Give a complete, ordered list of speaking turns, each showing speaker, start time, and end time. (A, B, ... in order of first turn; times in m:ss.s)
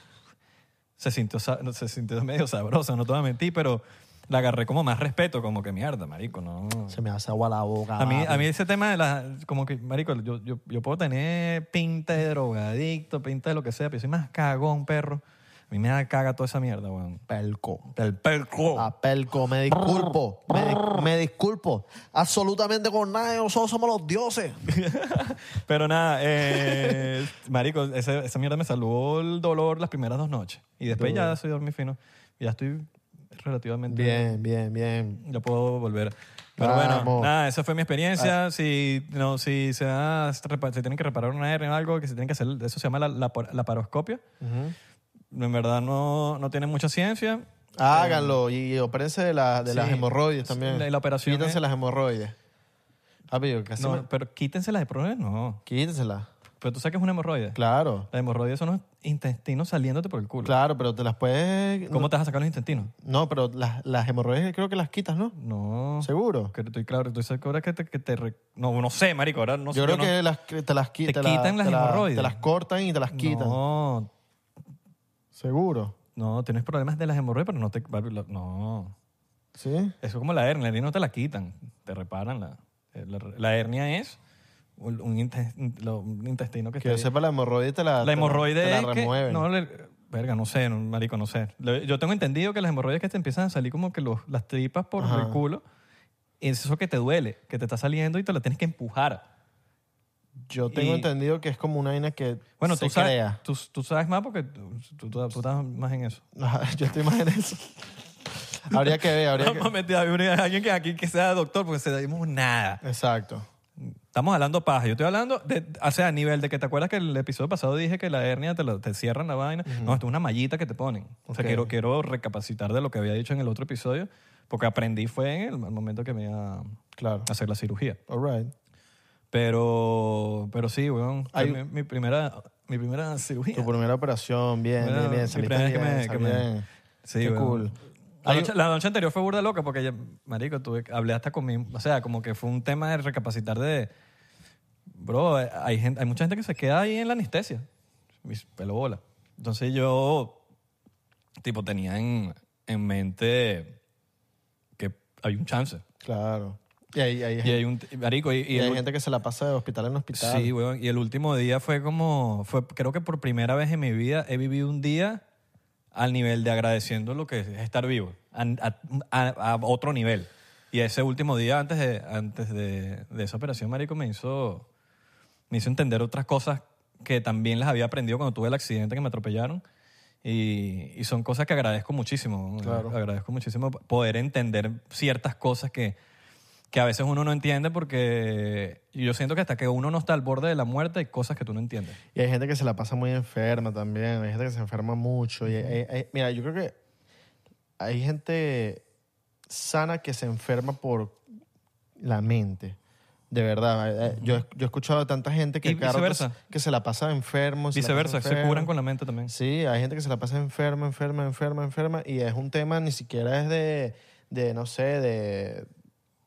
0:01.0-0:07.0 A
0:06.9-0:08.4 B
0:08.0-0:17.2 A
0:17.3-0:17.9 B
0:17.9-0:18.9 A
0:18.7-0:24.6 B
0:24.7-0:34.4 A
0:26.8-0:27.0 B
0:30.9-0:31.4 B
0:33.9-0:35.2 B
0:35.2-0:44.2 A
0:36.6-0:37.3 B
0:44.4-0:44.7 B
0:45.3-0:48.4 A
0:47.8-0:52.3 B
0:49.6-0:51.6 A
0:53.3-0:54.0 B
0:53.8-0:55.6 A
0:55.6-0:56.3 B
0:56.6-0:57.6 A
0:57.5-0:58.1 B
0:58.1-1:00.6 A
1:00.4-1:02.1 B
1:01.9-1:02.9 A
1:02.9-1:05.3 B
1:05.4-1:10.1 A
1:06.0-1:06.5 B
1:09.7-1:13.6 B
1:11.0-1:12.4 A
1:13.1-1:14.1 A
1:15.4-1:15.9 B
1:16.1-1:18.9 A
1:19.6-1:19.9 B
1:20.0-1:24.2 A
1:24.8-1:27.1 A
1:26.8-1:29.4 B
1:28.0-1:35.6 A
1:35.0-1:35.4 B
1:36.4-1:39.2 A
1:40.5-1:43.4 B
1:40.7-1:41.1 A
1:42.6-1:46.2 A
1:46.3-1:47.8 B
1:48.6-1:49.7 B
1:48.7-1:52.8 A
1:52.8-1:53.4 B
1:53.8-2:08.0 A
1:59.6-2:00.0 B
2:01.3-2:01.7 B
2:07.0-2:07.3 B
2:08.1-2:08.5 B
2:09.3-2:13.7 A
2:11.3-2:11.6 B
2:13.5-2:16.6 B
2:14.8-2:16.5 A
2:17.0-2:23.9 A
2:17.2-2:18.5 B
2:24.9-2:27.6 A
2:28.2-2:30.4 A
2:31.4-2:33.8 A
2:34.8-2:35.8 A
2:36.0-2:37.6 B
2:37.4-2:38.8 A
2:38.5-2:40.5 B
2:40.1-2:45.2 A
2:45.9-2:54.7 A
2:55.5-2:59.6 A
3:00.2-3:06.0 A
3:02.6-3:02.9 B
3:06.7-3:12.0 A
3:12.1-3:16.7 B
3:15.5-3:15.8 A
3:17.8-3:18.8 B
3:19.5-3:21.2 B
3:22.0-3:22.8 B
3:23.3-3:28.7 B
3:24.1-3:24.4 A
3:25.6-3:26.4 A
3:27.7-3:29.3 A
3:29.3-3:35.7 B